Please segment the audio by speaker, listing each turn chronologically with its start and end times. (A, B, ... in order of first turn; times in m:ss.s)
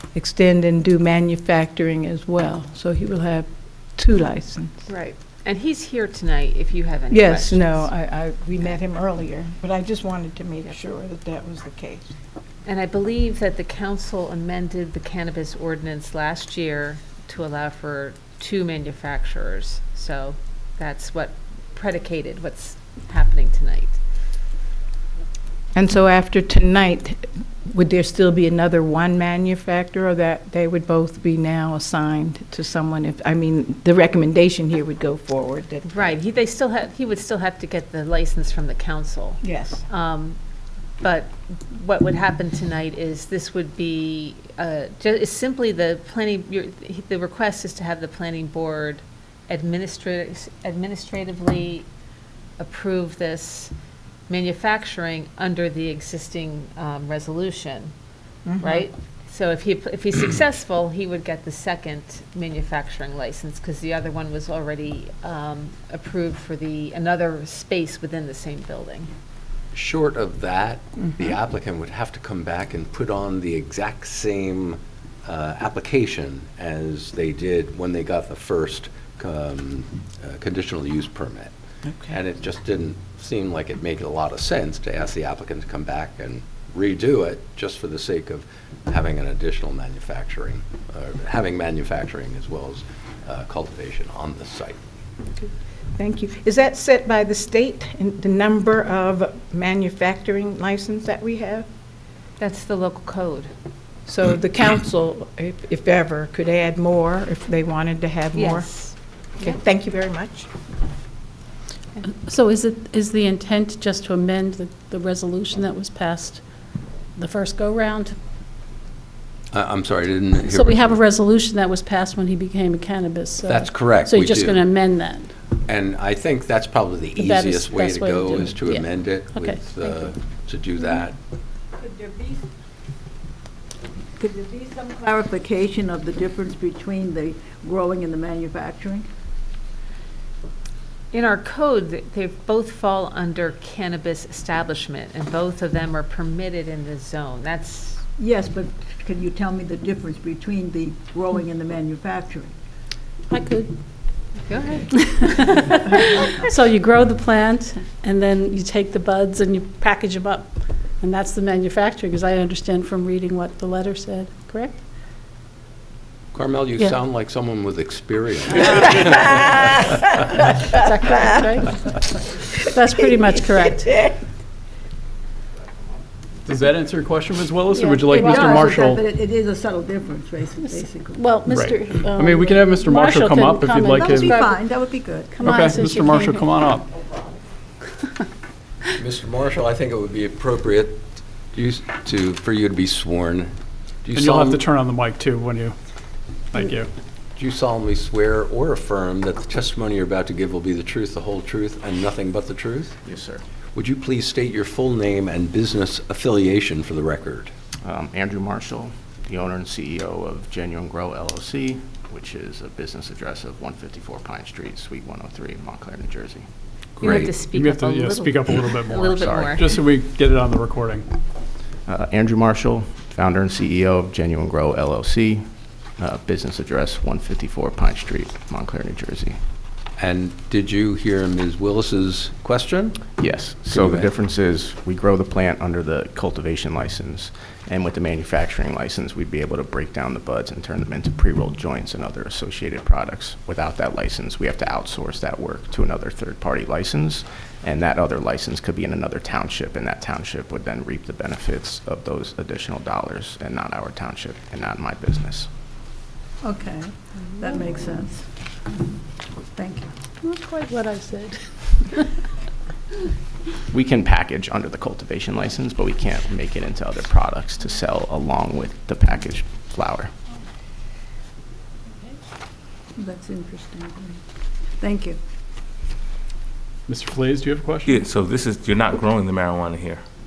0:00.2-0:04.8 A
0:04.9-0:07.9 B
0:07.1-0:12.1 A
0:12.6-0:24.0 B
0:25.8-0:36.2 A
0:35.9-0:40.4 B
0:39.4-0:39.8 A
0:41.0-0:51.9 B
0:52.6-0:53.7 B
0:54.3-0:57.9 B
0:58.5-0:58.9 A
0:58.6-1:09.1 B
1:09.7-1:21.5 C
1:21.9-1:22.2 A
1:22.1-1:34.8 C
1:36.0-1:41.7 A
1:42.4-1:43.5 B
1:44.1-1:48.7 A
1:48.4-1:49.6 B
1:49.4-1:50.5 A
1:52.0-1:56.5 D
1:57.2-1:58.2 D
1:59.5-2:01.0 C
2:00.4-2:05.3 D
2:03.5-2:04.6 C
2:05.6-2:11.2 C
2:07.2-2:10.1 D
2:11.8-2:12.5 E
2:14.2-2:19.1 E
2:21.1-2:28.0 B
2:28.2-2:32.5 E
2:33.3-2:33.8 D
2:34.4-2:35.3 B
2:34.9-2:44.8 D
2:46.3-2:49.3 C
2:50.7-2:52.0 D
2:52.7-2:54.0 D
2:56.4-2:59.1 F
2:57.7-2:59.0 D
2:58.3-3:01.2 E
3:00.6-3:06.8 D
3:01.5-3:04.3 F
3:04.0-3:05.4 E
3:05.4-3:06.8 F
3:09.0-3:13.5 C
3:14.0-3:14.6 C
3:14.1-3:15.8 F
3:16.5-3:16.9 F
3:17.4-3:23.0 C
3:23.0-3:23.4 G
3:23.8-3:27.5 C
3:27.8-3:36.5 G
3:37.0-3:37.4 C
3:37.0-3:39.8 B
3:37.5-3:41.1 F
3:39.2-3:39.6 G
3:41.9-3:49.4 G
3:50.0-3:53.0 C
3:53.2-4:15.5 G
3:53.7-3:54.1 C
4:16.4-4:18.8 E
4:17.4-4:17.6 D
4:19.5-4:20.0 E
4:20.2-4:22.1 D
4:23.7-4:30.1 G
4:33.0-4:34.2 E
4:34.8-4:35.2 E
4:36.9-4:38.0 F
4:37.8-4:40.0 H